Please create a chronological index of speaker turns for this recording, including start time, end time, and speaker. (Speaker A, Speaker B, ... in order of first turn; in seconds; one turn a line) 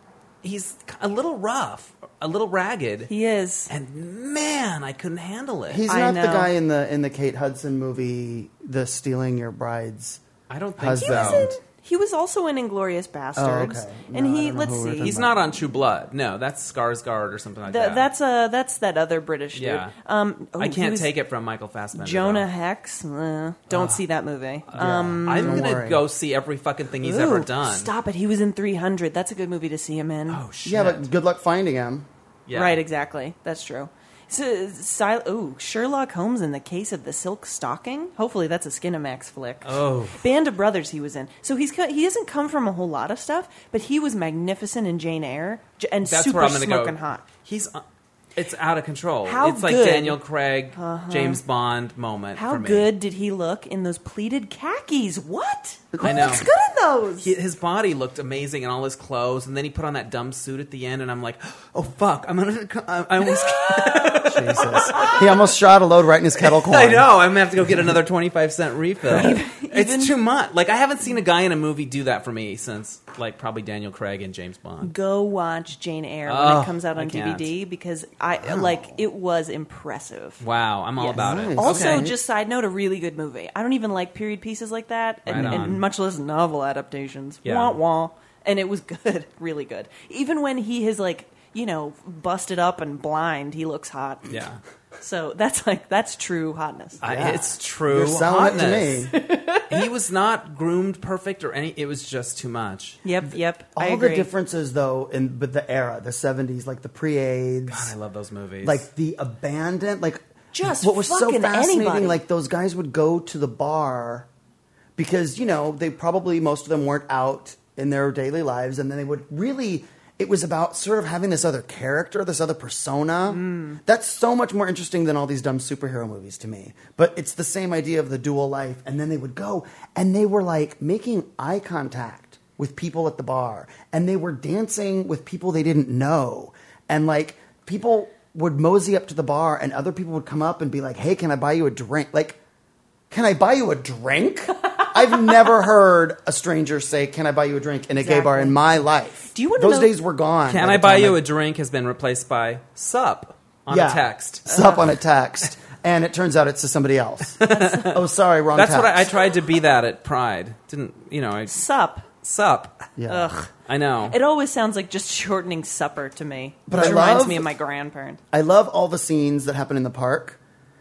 Speaker A: 0.4-3.1
Speaker B: 3.1-3.7
Speaker A: 3.7-5.8
Speaker C: 5.7-10.2
Speaker B: 5.9-6.5
Speaker A: 10.5-11.5
Speaker C: 10.8-11.6
Speaker B: 11.0-15.2
Speaker C: 13.4-15.4
Speaker A: 15.0-18.1
Speaker B: 17.7-21.1
Speaker A: 19.6-19.9
Speaker A: 20.6-22.5
Speaker B: 21.9-25.7
Speaker A: 23.7-24.0
Speaker A: 24.7-27.9
Speaker C: 24.8-26.0
Speaker B: 27.0-30.4
Speaker A: 30.3-31.1
Speaker C: 30.6-32.1
Speaker A: 32.5-32.8
Speaker B: 32.5-47.2
Speaker A: 39.6-40.2
Speaker A: 46.0-47.8
Speaker A: 48.4-52.9
Speaker B: 49.2-50.2
Speaker B: 50.7-51.4
Speaker B: 52.4-57.3
Speaker C: 55.9-56.4
Speaker A: 56.0-56.5
Speaker A: 57.2-65.3
Speaker B: 63.2-65.2
Speaker C: 64.2-67.1
Speaker A: 66.4-74.9
Speaker B: 69.1-70.2
Speaker B: 74.8-80.4
Speaker A: 76.3-77.5
Speaker C: 78.5-78.8
Speaker A: 80.4-82.1
Speaker B: 81.0-94.3
Speaker C: 81.2-82.2
Speaker A: 85.3-85.8
Speaker C: 85.3-85.8
Speaker A: 87.4-87.8
Speaker A: 94.3-94.6
Speaker B: 95.0-97.0
Speaker C: 97.0-99.1
Speaker A: 97.0-99.1
Speaker B: 99.1-99.9
Speaker A: 99.7-103.0
Speaker B: 103.0-104.3
Speaker C: 103.7-107.9
Speaker A: 107.7-108.8
Speaker C: 108.6-114.3
Speaker B: 110.5-112.2
Speaker C: 115.0-142.4
Speaker B: 123.3-123.8
Speaker C: 143.1-151.2
Speaker B: 148.0-148.6
Speaker B: 149.3-149.9
Speaker A: 150.5-154.5
Speaker C: 153.7-159.1
Speaker B: 154.5-154.8
Speaker A: 157.4-158.0
Speaker B: 157.5-157.9
Speaker A: 158.5-162.9
Speaker B: 161.5-162.1
Speaker C: 163.0-163.3
Speaker B: 163.1-163.5
Speaker A: 163.7-164.2
Speaker B: 164.1-168.2
Speaker C: 166.7-167.5
Speaker C: 168.3-170.4